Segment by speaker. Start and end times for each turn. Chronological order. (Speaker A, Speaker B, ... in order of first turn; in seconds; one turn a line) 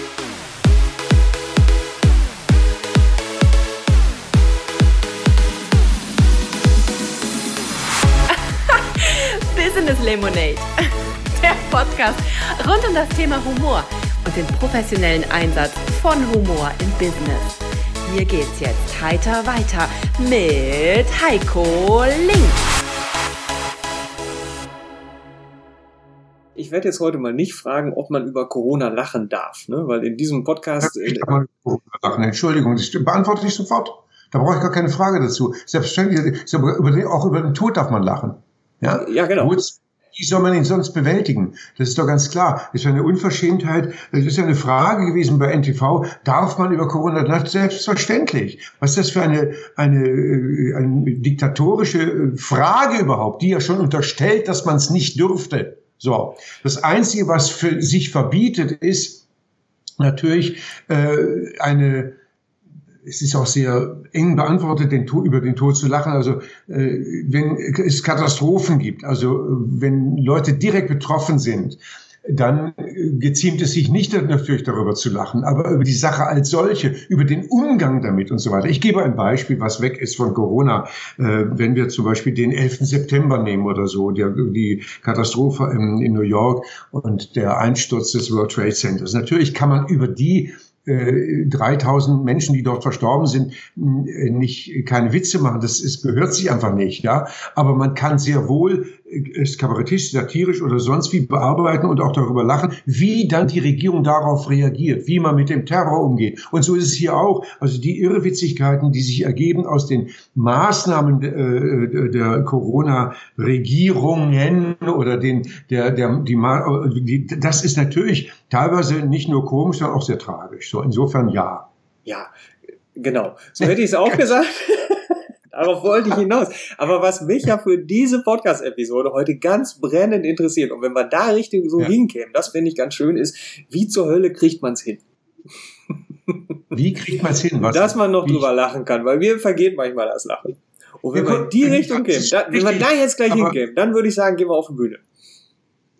Speaker A: 8.3-10.7
Speaker A: 11.4-22.6
Speaker B: 26.6-31.3
Speaker C: 30.8-59.2
Speaker B: 38.9-39.6
Speaker C: 60.0-62.1
Speaker C: 63.0-121.7
Speaker B: 123.0-135.0
Speaker C: 123.6-124.2
Speaker C: 136.7-138.4
Speaker B: 137.6-145.0
Speaker C: 141.1-143.5